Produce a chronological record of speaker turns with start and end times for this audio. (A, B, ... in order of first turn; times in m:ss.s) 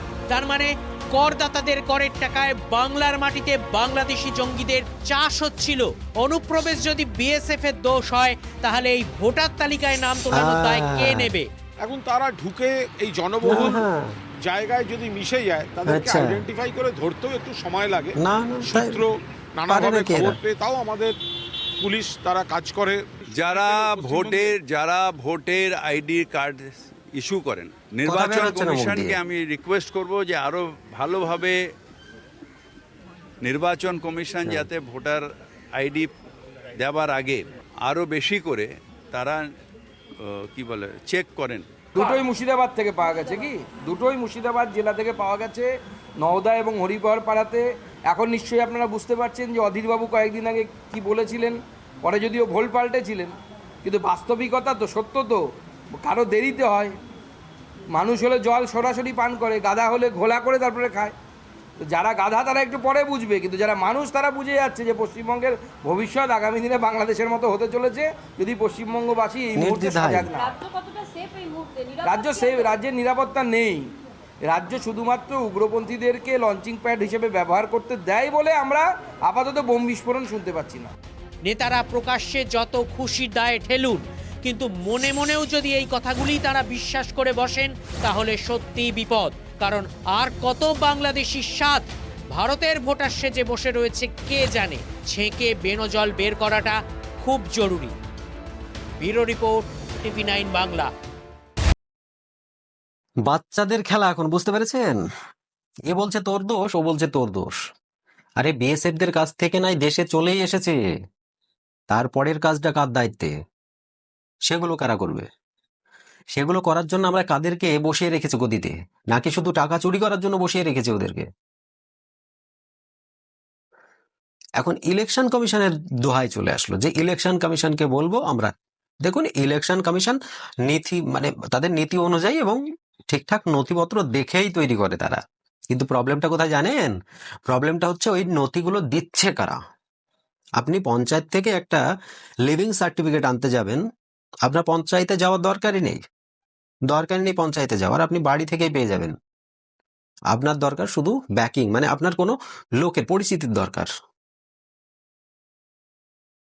0:00.3-0:11.5 A
0:10.3-0:11.3 B
0:11.8-0:13.8 C
0:13.4-0:14.1 B
0:14.4-0:21.2 C
0:15.9-0:16.5 B
0:18.2-0:19.0 B
0:19.7-0:20.4 B
0:21.8-0:24.5 C
0:23.4-0:31.6 D
0:28.0-0:29.2 B
0:33.4-0:36.1 D
0:34.4-0:34.7 B
0:36.8-0:39.4 D
0:40.2-0:41.6 D
0:42.0-0:45.7 E
0:46.2-0:55.4 E
0:55.9-0:56.9 E
0:57.9-1:01.1 E
1:01.9-1:10.5 E
1:09.6-1:10.3 B
1:10.4-1:12.8 F
1:12.0-1:13.8 E
1:14.5-1:20.9 E
1:21.4-1:38.0 A
1:39.0-1:40.9 A
1:43.2-1:45.0 B
1:45.9-1:47.6 B
1:48.4-1:50.8 B
1:51.9-1:53.3 B
1:54.5-1:55.3 B
1:56.3-2:01.3 B
2:04.6-2:08.5 B
2:09.0-2:16.9 B
2:17.5-2:19.6 B
2:20.6-2:21.8 B
2:22.5-2:23.8 B
2:24.4-2:26.0 B
2:26.9-2:29.1 B
2:30.3-2:33.9 B